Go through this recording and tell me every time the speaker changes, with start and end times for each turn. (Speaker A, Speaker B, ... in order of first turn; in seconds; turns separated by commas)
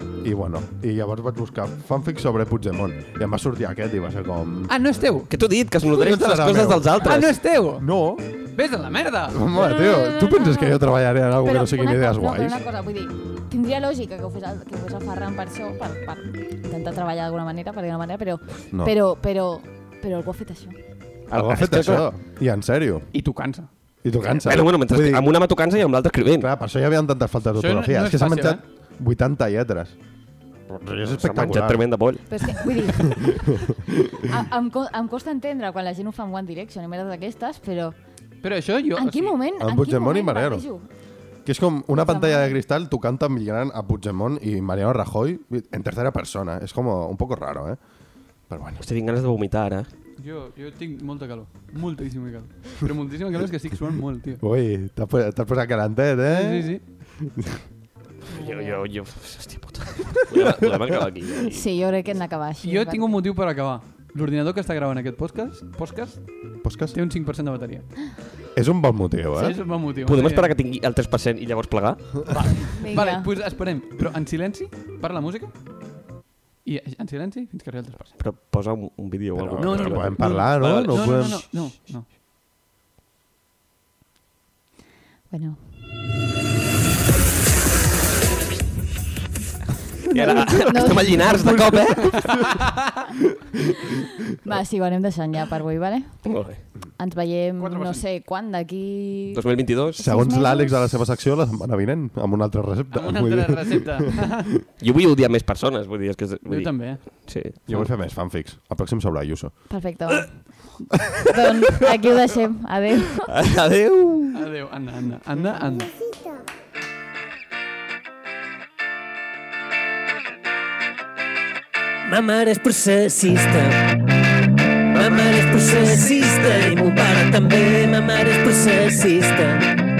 Speaker A: 0.2-4.7, Speaker B: 4.7-5.3, Speaker C: 5.3-7.3, Speaker A: 5.8-8.2, Speaker B: 7.0-7.9, Speaker B: 8.5-9.5, Speaker A: 9.3-12.6, Speaker D: 9.5-10.8, Speaker D: 11.4-20.8, Speaker C: 21.3-22.1, Speaker A: 21.3-23.1, Speaker B: 23.1-23.7, Speaker A: 24.0-25.4, Speaker C: 24.2-26.5, Speaker A: 26.4-29.9, Speaker B: 27.6-28.6, Speaker A: 30.7-31.8, Speaker C: 31.1-32.2, Speaker D: 32.3-33.6, Speaker A: 33.0-34.4, Speaker D: 34.2-38.0, Speaker B: 38.4-39.4, Speaker D: 39.0-40.9, Speaker A: 39.6-40.6, Speaker A: 41.4-47.8, Speaker D: 42.0-42.6, Speaker A: 48.5-48.8, Speaker C: 48.8-49.9, Speaker B: 50.2-54.4, Speaker A: 54.4-57.6, Speaker B: 56.3-56.8, Speaker C: 58.3-61.6, Speaker D: 58.4-58.8, Speaker D: 61.5-63.2, Speaker B: 62.6-66.2, Speaker A: 66.6-67.0, Speaker B: 66.9-67.9, Speaker A: 68.5-69.6, Speaker B: 69.3-70.5, Speaker C: 70.0-72.2, Speaker B: 72.3-75.5, Speaker D: 72.7-73.3, Speaker B: 76.6-78.2, Speaker C: 78.2-81.3, Speaker A: 79.3-81.4, Speaker B: 79.6-82.1, Speaker D: 85.3-85.6, Speaker D: 90.1-91.6, Speaker C: 90.1-92.6, Speaker A: 91.1-92.6, Speaker B: 92.1-92.8, Speaker D: 94.4-96.3, Speaker C: 96.2-96.6, Speaker D: 97.0-99.4, Speaker B: 97.6-98.0, Speaker C: 99.3-100.0, Speaker D: 99.9-101.0, Speaker A: 100.0-104.6, Speaker B: 102.9-104.5, Speaker C: 104.8-107.7, Speaker B: 106.5-107.0, Speaker A: 107.7-109.5, Speaker D: 109.7-110.5, Speaker D: 111.2-113.3, Speaker C: 113.2-114.4, Speaker B: 114.3-115.9, Speaker E: 122.0-124.0, Speaker E: 124.9-129.7